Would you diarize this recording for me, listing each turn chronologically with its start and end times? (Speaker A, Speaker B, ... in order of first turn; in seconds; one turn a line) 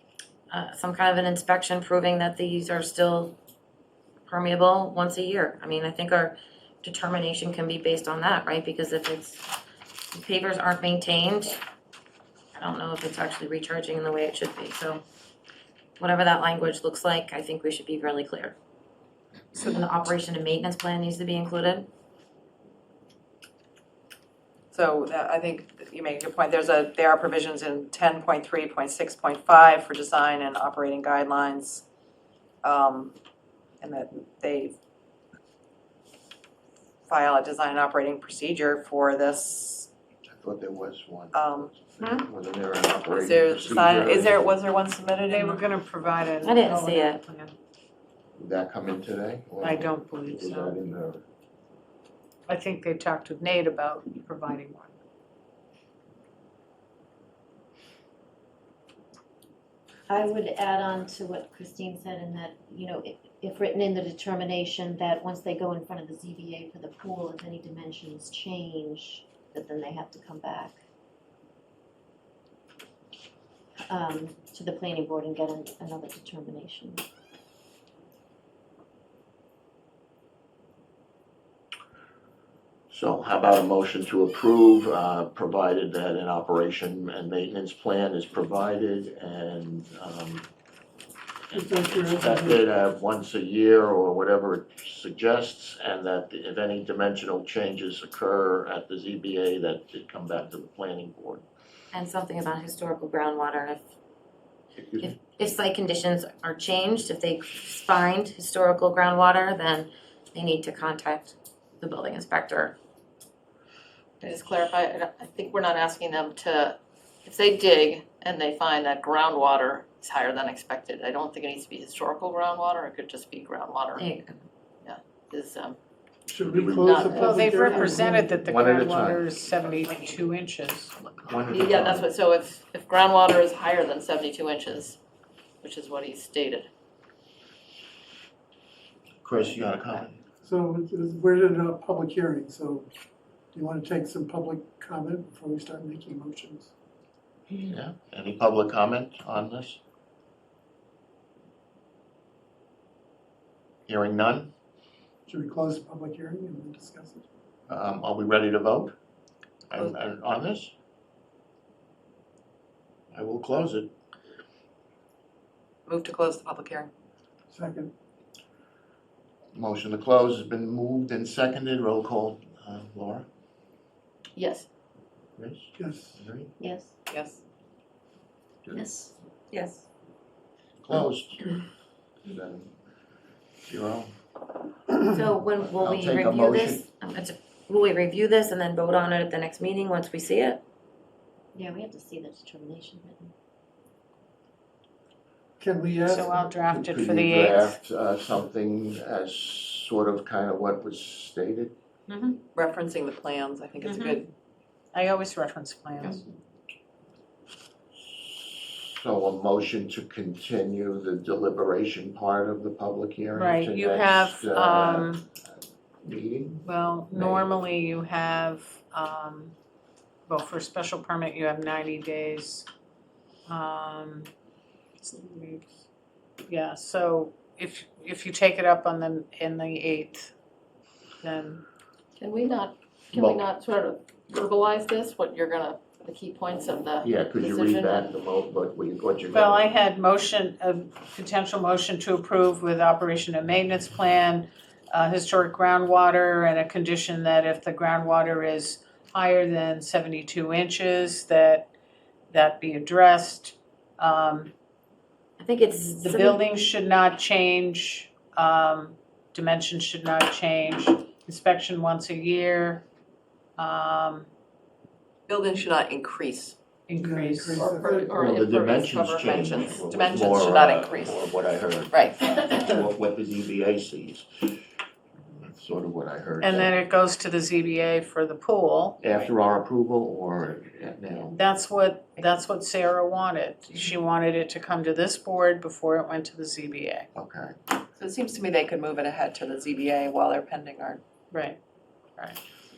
Speaker A: 0.5-3.4
Speaker A: 4.3-9.5
Speaker A: 10.1-11.6
Speaker A: 12.6-15.0
Speaker A: 16.0-18.6
Speaker A: 19.5-21.9
Speaker B: 24.7-31.8
Speaker B: 32.6-33.1
Speaker B: 33.8-34.7
Speaker B: 37.1-39.9
Speaker C: 40.3-44.4
Speaker B: 41.3-41.7
Speaker B: 43.1-45.6
Speaker D: 45.3-47.5
Speaker A: 46.4-47.2
Speaker C: 48.4-51.2
Speaker D: 49.6-50.8
Speaker D: 52.5-54.9
Speaker E: 60.1-70.7
Speaker E: 73.8-77.0
Speaker C: 82.9-90.4
Speaker F: 91.5-92.6
Speaker C: 91.5-101.5
Speaker A: 101.9-103.9
Speaker C: 104.8-105.1
Speaker A: 105.0-112.8
Speaker G: 114.2-124.0
Speaker A: 124.0-124.4
Speaker G: 124.8-125.8
Speaker F: 126.3-128.3
Speaker C: 126.5-127.1
Speaker G: 126.8-128.0
Speaker D: 127.1-130.9
Speaker C: 128.4-129.3
Speaker C: 131.1-132.1
Speaker G: 131.5-135.0
Speaker G: 135.6-136.7
Speaker C: 139.2-140.2
Speaker F: 140.4-142.9
Speaker F: 143.5-146.7
Speaker C: 147.7-149.8
Speaker C: 153.9-154.5
Speaker F: 155.3-157.2
Speaker C: 157.7-158.9
Speaker C: 159.7-160.7
Speaker C: 163.1-163.9
Speaker B: 165.9-166.9
Speaker F: 167.5-167.9
Speaker C: 169.5-173.2
Speaker G: 174.3-174.7
Speaker C: 175.4-176.5
Speaker F: 175.8-176.2
Speaker E: 176.6-176.9
Speaker B: 177.1-177.4
Speaker C: 178.6-179.1
Speaker E: 178.7-179.1
Speaker A: 179.5-179.8
Speaker C: 180.8-181.5
Speaker C: 182.2-182.7
Speaker C: 183.6-184.1
Speaker A: 185.1-190.6
Speaker C: 185.6-186.9
Speaker E: 191.5-193.3
Speaker F: 195.6-196.5
Speaker D: 196.1-197.8
Speaker C: 196.6-201.7
Speaker D: 202.1-202.4
Speaker B: 202.5-204.3
Speaker D: 203.8-204.2
Speaker D: 204.9-206.2
Speaker C: 208.0-215.1
Speaker D: 213.3-215.2
Speaker C: 216.0-217.5
Speaker D: 216.6-219.5
Speaker D: 220.3-222.7
Speaker D: 223.5-224.3
Speaker D: 225.0-225.8
Speaker D: 226.4-230.3
Speaker D: 231.2-231.6
Speaker G: 232.2-237.9
Speaker C: 233.1-233.4
Speaker C: 237.0-239.7
Speaker D: 239.3-251.7
Speaker D: 252.3-254.5
Speaker A: 255.4-256.4
Speaker D: 255.9-262.8
Speaker D: 263.6-264.3
Speaker B: 265.3-266.6
Speaker D: 266.9-267.7
Speaker F: 267.0-268.4
Speaker G: 267.6-269.6
Speaker C: 268.1-274.6
Speaker B: 269.1-271.3
Speaker B: 271.9-272.6
Speaker C: 275.4-276.7
Speaker D: 276.4-279.0
Speaker C: 279.0-281.3
Speaker D: 281.3-287.1
Speaker C: 287.1-287.5
Speaker B: 287.9-291.0
Speaker D: 291.3-291.6